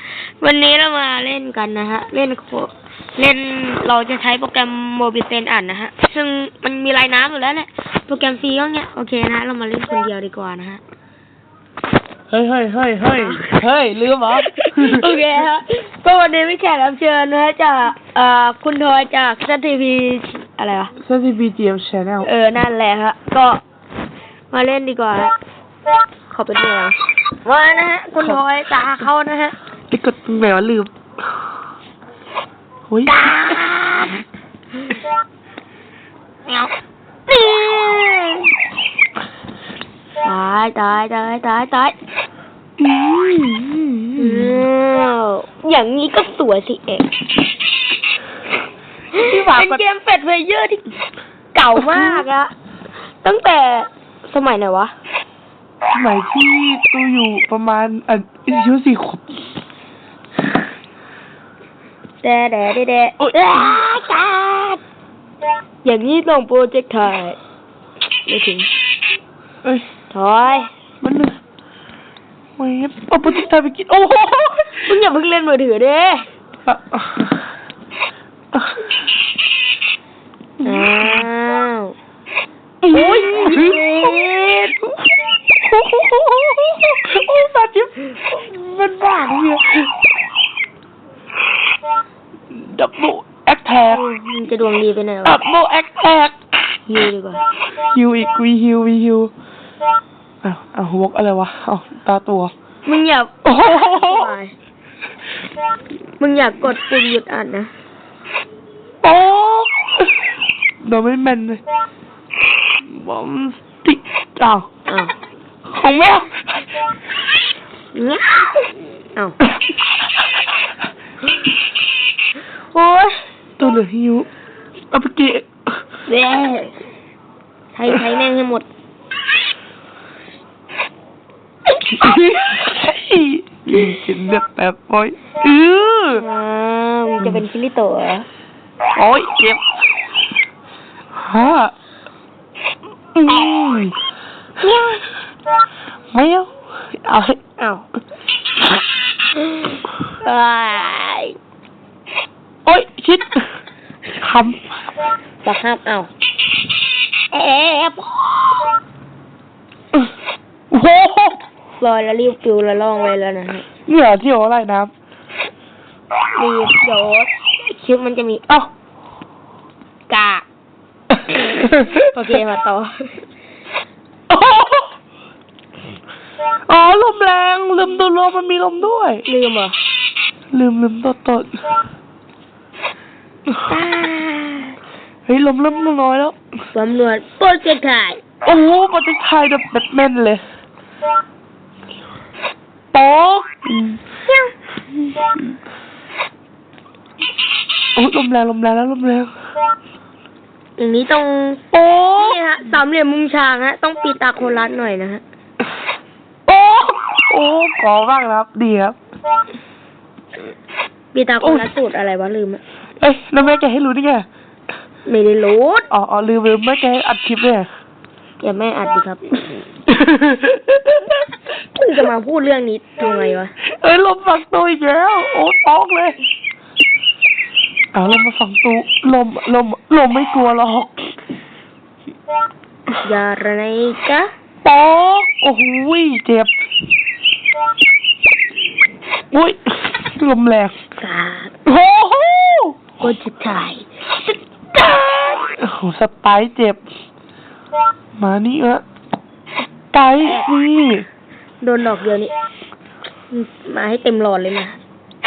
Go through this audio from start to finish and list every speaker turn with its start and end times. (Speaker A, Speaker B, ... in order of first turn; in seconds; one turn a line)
Speaker A: 0.4-10.8
Speaker B: 12.3-15.2
Speaker A: 13.1-13.5
Speaker A: 14.4-20.9
Speaker B: 21.0-22.3
Speaker A: 22.2-23.6
Speaker A: 24.5-25.3
Speaker A: 26.3-29.6
Speaker B: 29.9-30.9
Speaker B: 32.9-33.6
Speaker A: 33.0-34.2
Speaker A: 37.3-38.5
Speaker A: 40.2-41.9
Speaker B: 42.8-44.6
Speaker A: 44.2-47.1
Speaker B: 49.1-49.8
Speaker A: 49.1-50.9
Speaker A: 51.5-52.5
Speaker B: 51.8-52.2
Speaker A: 53.2-54.9
Speaker B: 55.9-59.4
Speaker A: 62.2-64.8
Speaker B: 63.2-63.9
Speaker A: 65.8-67.4
Speaker A: 68.3-68.7
Speaker A: 70.1-70.7
Speaker B: 71.0-71.4
Speaker B: 72.6-74.9
Speaker A: 74.8-76.3
Speaker B: 76.7-77.3
Speaker B: 78.5-78.8
Speaker B: 80.6-81.3
Speaker A: 80.6-81.9
Speaker B: 82.8-84.3
Speaker A: 82.9-84.8
Speaker B: 85.5-90.0
Speaker B: 92.5-94.0
Speaker A: 93.9-95.4
Speaker B: 95.2-96.4
Speaker A: 96.8-97.4
Speaker B: 97.9-99.3
Speaker B: 100.4-102.5
Speaker A: 102.8-104.5
Speaker B: 103.5-104.3
Speaker A: 106.2-107.7
Speaker B: 109.0-110.2
Speaker B: 110.8-111.6
Speaker B: 112.8-114.7
Speaker A: 114.9-115.1
Speaker B: 115.7-116.6
Speaker A: 117.9-119.4
Speaker A: 122.7-123.3
Speaker B: 123.6-124.3
Speaker B: 124.9-125.5
Speaker A: 126.1-126.8
Speaker A: 127.7-128.7
Speaker B: 131.8-136.2
Speaker A: 136.1-138.2
Speaker B: 138.9-139.6
Speaker B: 141.2-141.7
Speaker B: 143.1-143.9
Speaker B: 144.6-145.0
Speaker B: 146.1-147.4
Speaker A: 147.6-147.8
Speaker A: 149.4-151.3
Speaker B: 152.7-153.4
Speaker B: 154.2-154.6
Speaker A: 155.4-156.1
Speaker A: 157.3-158.6
Speaker B: 160.7-161.4
Speaker A: 161.8-163.7
Speaker B: 163.9-164.9
Speaker A: 166.4-168.4
Speaker A: 170.1-170.4
Speaker A: 171.3-173.2
Speaker B: 171.6-171.9
Speaker B: 174.3-174.9
Speaker B: 176.7-179.2
Speaker A: 179.2-179.8
Speaker B: 180.5-181.6
Speaker A: 183.7-184.8
Speaker B: 185.3-186.4
Speaker A: 186.7-188.2
Speaker B: 188.4-190.4
Speaker B: 192.9-194.0
Speaker B: 197.9-199.3
Speaker A: 200.8-205.2
Speaker B: 201.7-202.4
Speaker B: 206.5-208.9
Speaker A: 211.1-212.6
Speaker B: 211.4-211.7
Speaker B: 213.0-214.3
Speaker A: 215.1-215.9
Speaker B: 215.9-217.7
Speaker A: 218.4-219.6
Speaker B: 219.9-221.2
Speaker A: 221.7-223.5
Speaker B: 223.6-226.2
Speaker B: 227.9-231.2
Speaker A: 233.0-234.3
Speaker B: 234.6-236.5
Speaker B: 239.3-240.8
Speaker A: 241.0-241.5
Speaker B: 241.7-242.8
Speaker A: 243.0-243.9
Speaker A: 244.8-245.3
Speaker B: 245.3-246.8
Speaker B: 248.2-248.8
Speaker B: 249.9-251.1
Speaker A: 251.6-252.3
Speaker A: 253.3-254.8